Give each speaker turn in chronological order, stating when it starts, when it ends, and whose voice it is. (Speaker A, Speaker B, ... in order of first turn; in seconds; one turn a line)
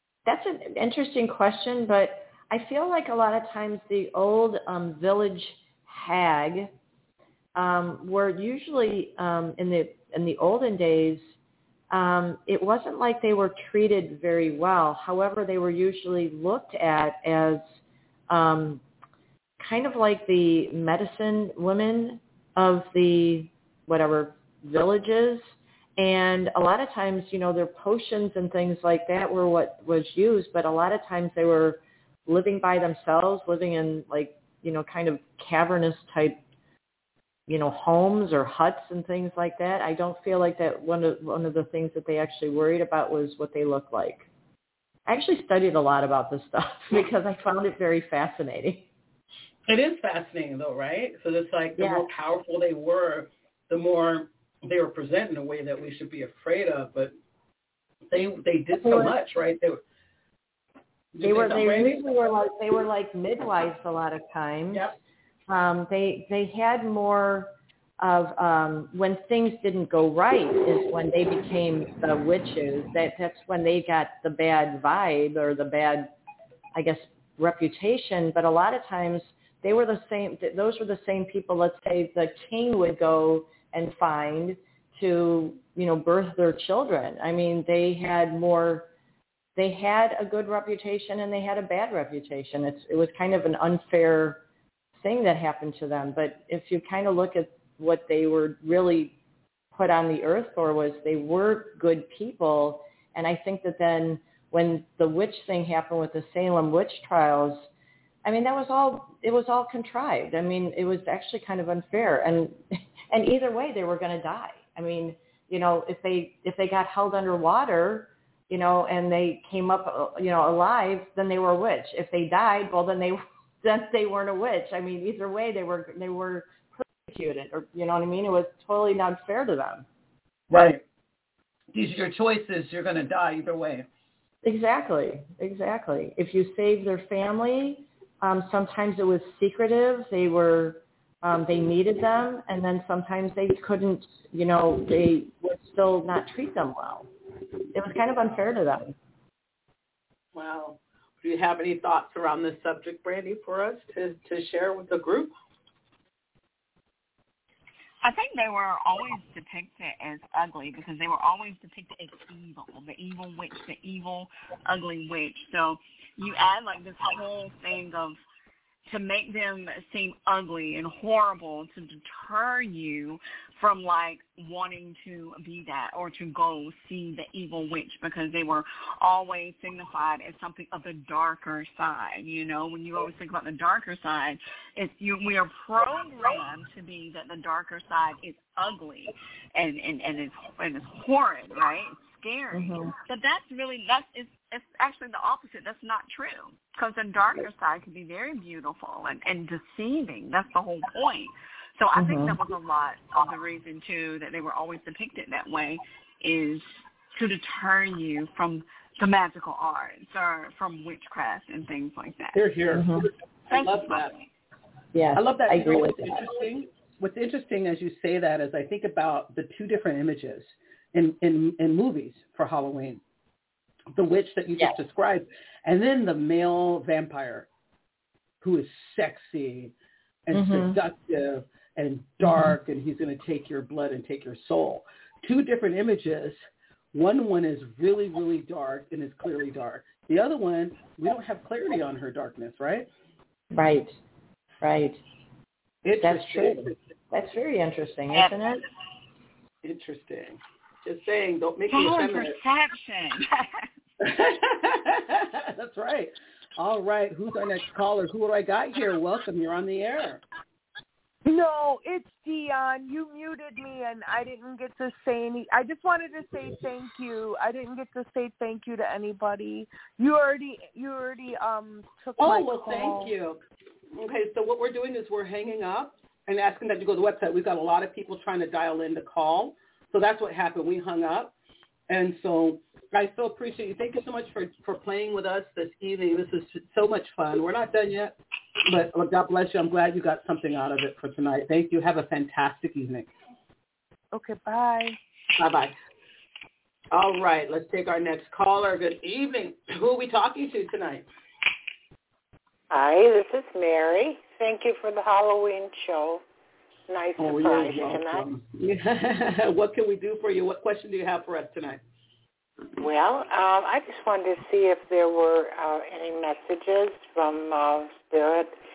Speaker A: 0.2-6.7
Speaker A: 7.5-11.3
Speaker A: 11.9-17.7
Speaker A: 18.3-18.8
Speaker A: 19.6-36.4
Speaker A: 37.5-44.3
Speaker A: 45.1-48.9
Speaker B: 49.7-57.1
Speaker A: 51.8-52.1
Speaker B: 58.1-59.8
Speaker A: 58.8-59.1
Speaker B: 61.1-62.0
Speaker A: 61.2-64.9
Speaker A: 65.5-76.1
Speaker A: 76.7-88.9
Speaker A: 89.5-94.4
Speaker A: 95.0-99.1
Speaker A: 99.7-107.7
Speaker A: 108.2-129.8
Speaker B: 130.5-130.8
Speaker B: 131.7-133.8
Speaker A: 134.4-147.1
Speaker A: 147.7-148.9
Speaker B: 150.3-155.3
Speaker C: 158.0-168.2
Speaker C: 168.8-212.4
Speaker A: 192.5-192.9
Speaker A: 201.9-202.3
Speaker B: 212.3-214.1
Speaker A: 212.7-213.0
Speaker C: 213.5-214.2
Speaker A: 214.9-216.2
Speaker B: 215.2-223.0
Speaker B: 223.9-227.5
Speaker B: 228.4-229.7
Speaker B: 230.3-236.4
Speaker A: 230.3-230.8
Speaker A: 232.2-232.6
Speaker B: 236.9-242.9
Speaker A: 243.5-244.0
Speaker A: 244.6-245.0
Speaker B: 245.8-246.8
Speaker A: 246.0-248.6
Speaker B: 249.6-252.4
Speaker C: 251.7-253.7
Speaker B: 254.0-260.2
Speaker D: 261.2-273.1
Speaker B: 272.2-273.4
Speaker B: 273.9-281.3
Speaker B: 281.9-293.1
Speaker D: 294.1-295.0
Speaker B: 295.4-295.7
Speaker B: 296.9-301.1
Speaker E: 302.7-306.2
Speaker E: 306.9-308.2
Speaker B: 307.2-311.8
Speaker E: 312.8-318.5